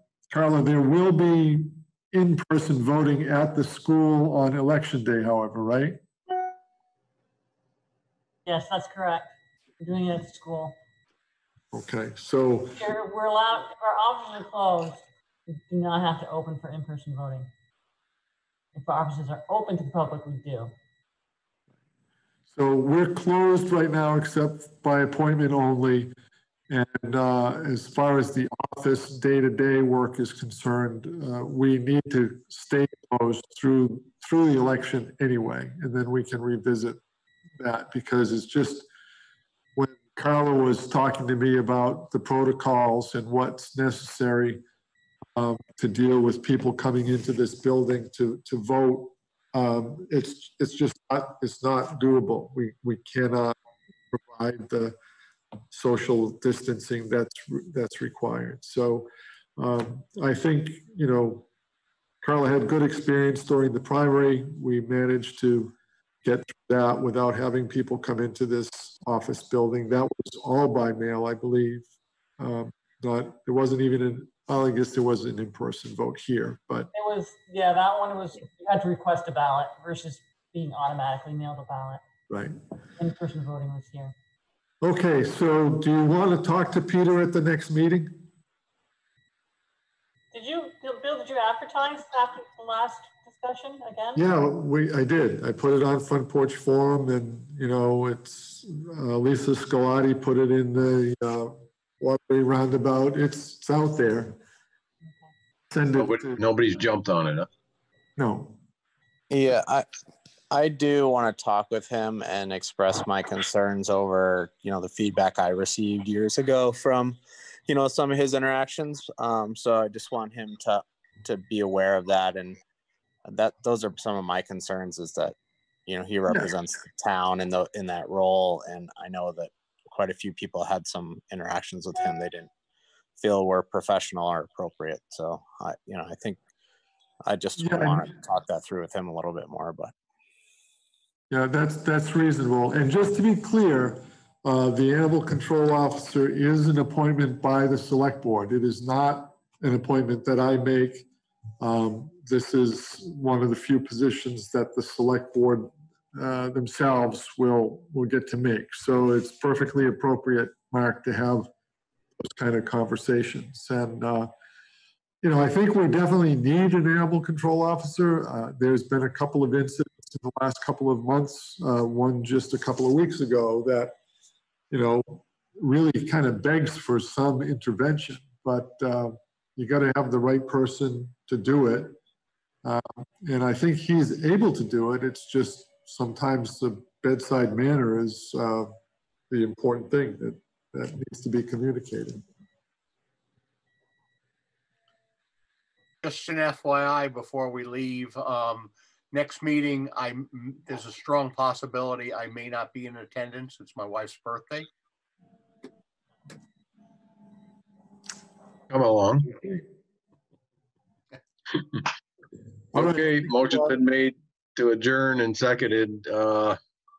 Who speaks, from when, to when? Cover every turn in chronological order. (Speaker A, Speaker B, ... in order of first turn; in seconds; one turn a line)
Speaker A: 0.3-6.0
Speaker B: 8.5-10.8
Speaker A: 11.7-12.8
Speaker B: 12.7-17.5
Speaker B: 18.8-20.7
Speaker A: 22.5-26.1
Speaker A: 26.7-37.0
Speaker A: 37.6-38.9
Speaker A: 39.8-44.6
Speaker A: 45.4-53.5
Speaker A: 54.1-55.0
Speaker A: 55.7-61.5
Speaker A: 62.2-71.9
Speaker A: 72.4-76.9
Speaker B: 76.9-82.0
Speaker A: 82.3-82.6
Speaker B: 83.0-84.1
Speaker A: 84.8-88.2
Speaker B: 90.3-94.3
Speaker A: 94.2-104.4
Speaker A: 105.7-106.4
Speaker C: 106.0-107.5
Speaker A: 108.2-108.6
Speaker D: 109.3-109.9
Speaker D: 110.5-122.6
Speaker D: 123.3-125.3
Speaker D: 125.9-132.5
Speaker D: 133.2-136.4
Speaker D: 137.3-139.9
Speaker A: 137.6-138.1
Speaker A: 141.3-151.1
Speaker A: 151.6-161.5
Speaker A: 162.2-164.3
Speaker A: 165.2-174.0
Speaker A: 174.7-182.0
Speaker A: 182.6-188.7
Speaker A: 189.3-192.2
Speaker E: 196.0-204.7
Speaker C: 208.7-209.6
Speaker C: 212.7-216.6
Speaker A: 212.8-213.7